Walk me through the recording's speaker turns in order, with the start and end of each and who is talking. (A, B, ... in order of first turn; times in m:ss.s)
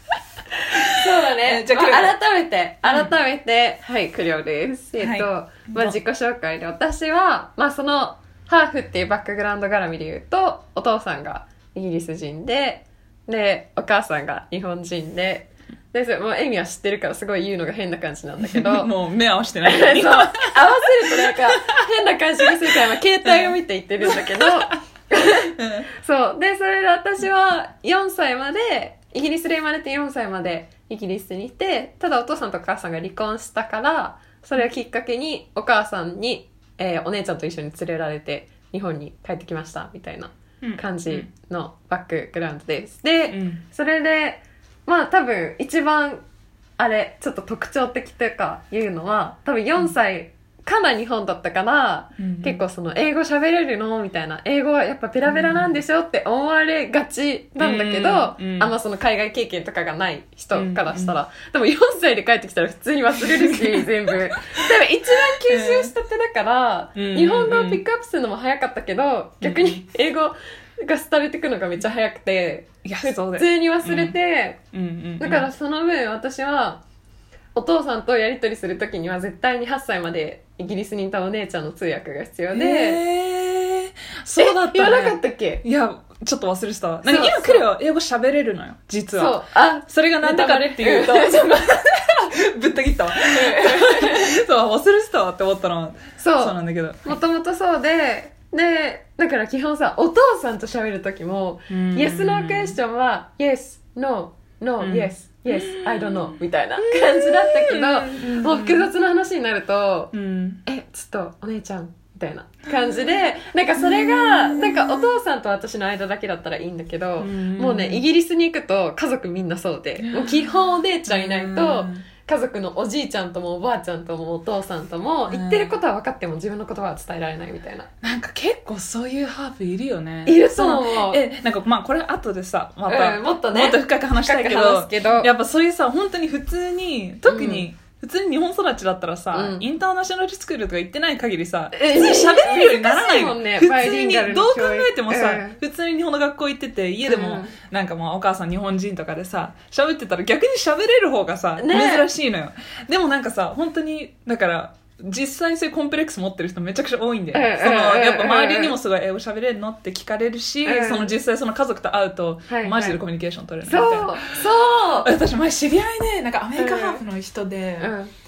0:00.7-0:18.9 A
0:00.7-0:02.1 B
0:02.9-0:03.1 B
0:05.0-0:05.9 B
0:18.4-0:21.8 B
0:19.6-0:46.2 A
0:23.2-0:24.7 B
0:25.6-0:25.9 B
0:40.6-0:41.3 B
0:43.3-0:43.6 B
0:46.8-1:14.6 A
0:52.2-0:52.6 B
0:55.3-0:55.7 B
0:57.6-0:58.7 B
1:00.5-1:01.2 B
1:03.2-1:03.8 B
1:05.3-1:05.9 B
1:07.0-1:07.8 B
1:09.4-1:09.8 B
1:12.8-1:14.2 B
1:14.7-1:15.5 B
1:15.2-1:16.8 A
1:17.5-1:23.0 A
1:22.5-1:37.2 B
1:24.4-1:25.6 A
1:27.1-1:27.6 A
1:29.1-1:32.2 A
1:33.2-1:34.3 A
1:36.2-1:50.1 A
1:41.7-1:42.8 B
1:44.8-1:48.9 B
1:50.1-1:50.6 B
1:50.7-2:07.9 A
1:53.8-1:55.2 B
1:57.2-1:58.0 B
2:00.0-2:02.1 B
2:05.3-2:05.7 B
2:08.0-2:44.3 B
2:10.3-2:11.2 A
2:12.9-2:15.3 A
2:17.3-2:17.7 A
2:19.3-2:19.6 A
2:21.7-2:25.6 A
2:27.1-2:27.6 A
2:31.6-2:32.1 A
2:37.3-2:38.8 A
2:40.6-2:41.2 A
2:42.5-2:43.0 A
2:43.6-2:45.1 A
2:45.0-2:47.9 B
2:46.6-2:47.0 A
2:47.8-2:48.1 A